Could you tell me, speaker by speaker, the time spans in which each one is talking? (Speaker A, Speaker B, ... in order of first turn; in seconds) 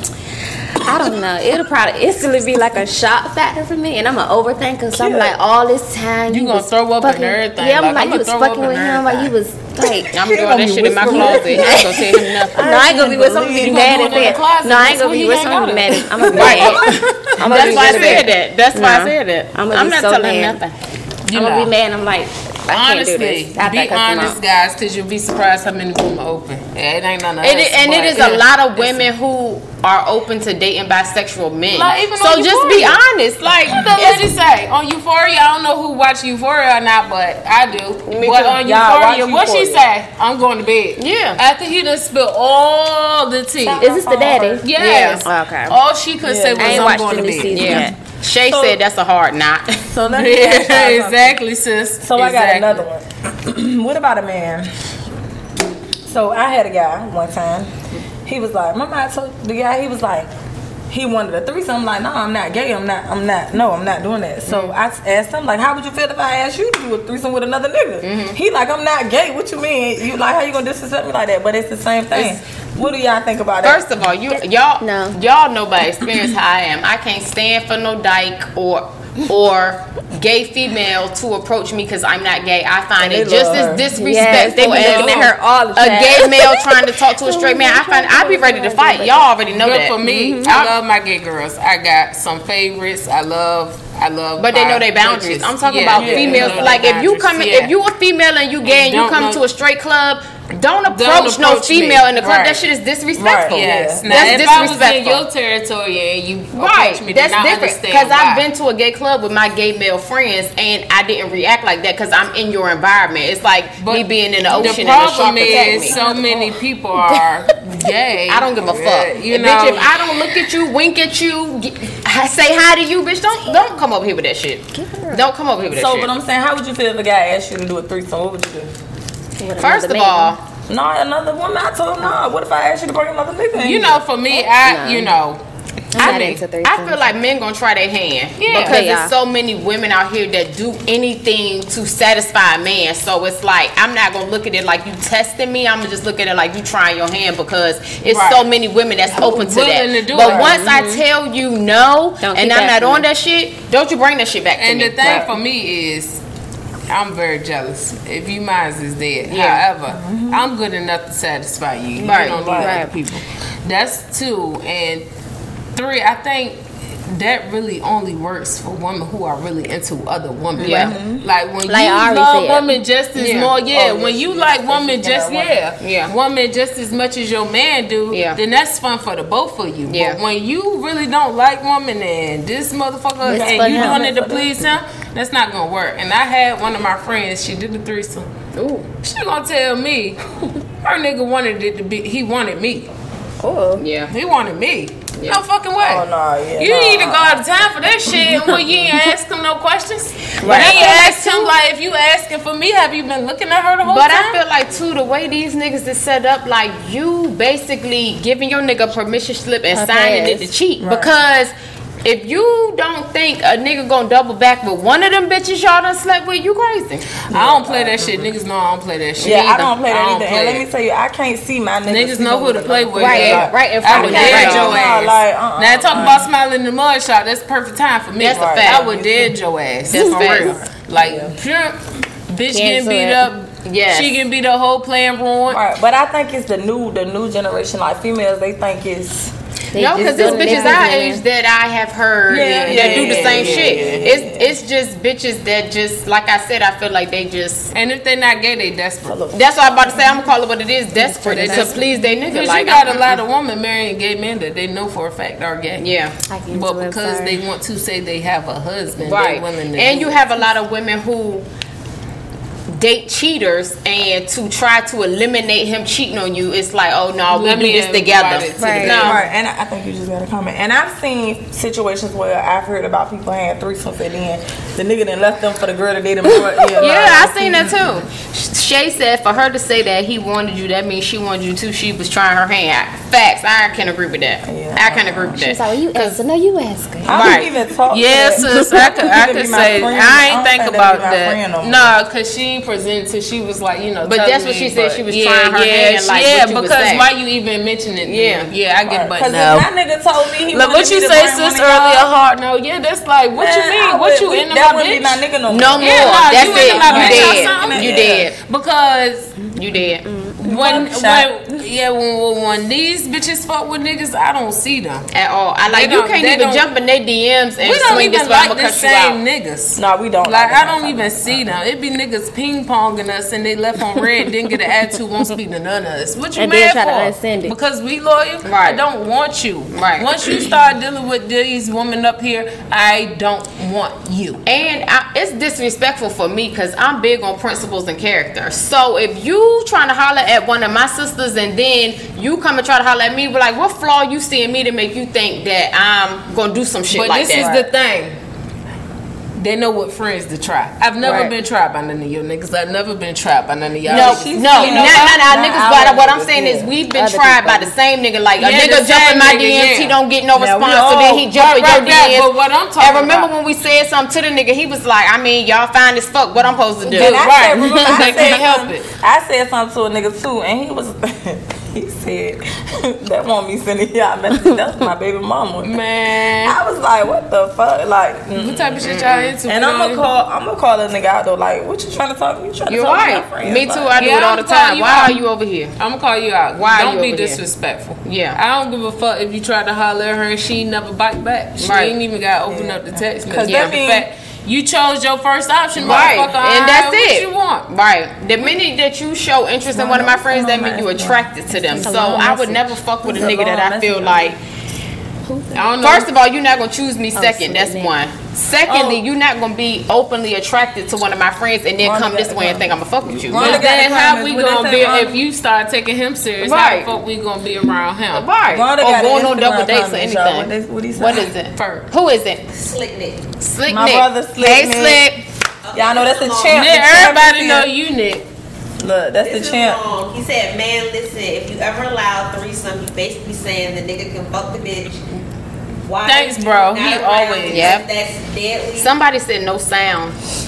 Speaker A: 0.8-10.1, 11.0-20.6, 21.3-24.4, 43.8-44.7, 45.2-45.8, 46.6-48.0, 74.8-75.2, 83.9-89.3, 90.0-90.6, 114.5-114.8, 115.4-117.5, 123.5-123.7, 124.7-125.3, 129.4-130.4, 134.3-135.2, 135.9-137.1, 138.5-139.1, 150.2-151.0, 152.2-153.1, 162.6-163.0, 171.7-172.7, 193.4-193.8, 200.4-201.5, 209.7-210.5, 222.9-224.7, 229.9-230.7, 232.5-233.3, 239.7-241.2, 250.9-251.8, 256.3-257.4, 268.6-269.1, 276.3-276.6, 285.4-287.4, 310.0-310.4, 326.4-327.6, 356.9-357.8, 401.8-402.8, 405.3-405.6, 407.1-407.9
Speaker B: 5.0-5.3, 10.1-14.3, 16.2-17.4, 38.4-39.9, 43.6-44.7, 46.2-47.2, 48.4-48.8, 49.9-51.4, 52.0-54.7, 56.1-57.7, 58.3-60.3, 60.9-73.8, 83.0-83.9, 84.6-85.2, 95.9-96.8, 103.2-104.6, 125.7-128.7, 130.7-134.0, 155.0-155.3, 159.9-160.4, 162.3-162.8, 170.7-171.2, 173.7-175.6, 183.2-184.5, 195.8-197.4, 210.8-211.1, 217.3-218.3, 219.2-226.3, 228.3-229.3, 231.0-231.3, 235.5-239.3, 239.9-240.9, 242.3-244.6, 249.1-249.9, 269.0-277.8, 284.5-285.4, 287.1-291.9, 298.9-302.1, 303.4-308.3, 310.4-311.3, 319.8-321.5, 347.3-347.7, 351.0-351.3, 353.9-356.7, 360.3-361.3, 366.9-375.8, 376.4-378.8, 379.5-384.0, 392.5-394.1, 395.8-396.3, 399.7-402.0, 403.0-404.4, 408.7-409.0, 411.8-415.2, 418.5-421.3, 423.7-425.1, 425.7-427.7, 428.8-429.8
Speaker C: 6.3-9.3, 13.4-18.3, 21.3-21.7, 22.7-29.1, 31.7-33.0, 33.7-43.9, 44.6-47.9, 50.1-52.8, 84.6-85.1, 89.5-97.7, 98.7-99.4, 100.9-102.7, 103.5-108.5, 113.8-120.0, 133.6-135.4, 135.9-136.4, 138.4-138.8, 148.1-148.4, 149.1-150.6, 154.6-156.2, 156.9-165.0, 165.8-188.3, 189.0-190.3, 190.8-192.9, 194.1-196.1, 196.6-204.4, 217.3-220.7, 221.9-235.6, 242.7-244.1, 247.7-249.2, 251.2-255.8, 256.5-260.2, 267.3-269.2, 287.9-290.3, 291.6-299.7, 300.5-305.2, 305.8-309.3, 310.4-315.1, 315.7-316.7, 317.6-334.4, 346.9-348.2, 349.4-355.1, 358.4-360.0, 361.3-363.3, 366.8-368.9, 375.6-376.6, 378.4-380.0, 384.0-385.2, 385.8-397.7, 405.5-406.1, 413.3-418.3, 421.1-421.9, 426.5-428.2, 436.1-437.8
Speaker D: 10.1-12.7, 16.4-20.7, 27.4-34.2, 38.1-38.6, 41.0-41.4, 44.8-45.3, 47.5-49.8, 64.5-64.7, 68.0-68.4, 73.6-90.8, 94.4-105.2, 106.5-116.0, 118.3-126.1, 129.6-130.4, 136.0-155.3, 159.3-159.6, 162.0-162.7, 170.6-170.9, 171.7-172.5, 173.2-173.5, 175.8-176.1, 178.1-178.4, 179.9-180.2, 183.3-184.0, 188.6-188.9, 193.8-194.1, 200.4-201.5, 203.8-211.5, 212.0-217.2, 219.2-219.7, 223.1-224.9, 228.2-228.9, 229.9-230.7, 233.7-234.2, 239.8-247.7, 249.3-253.2, 255.8-256.2, 259.0-261.5, 262.7-269.2, 276.8-286.2, 287.1-287.5, 289.6-291.4, 294.1-297.1, 298.0-298.5, 305.5-308.4, 309.6-310.1, 315.1-319.2, 328.4-328.8, 329.7-330.4, 334.4-347.5, 353.9-368.4, 378.8-379.4, 382.7-385.8, 386.6-387.4, 388.0-388.4, 391.6-391.9, 393.4-393.8, 395.8-404.4, 405.8-413.6, 416.4-416.9, 418.1-422.6, 423.4-425.2, 437.5-437.9, 438.8-440.2
Speaker E: 422.6-423.2, 425.6-426.6, 429.2-435.0, 435.9-438.9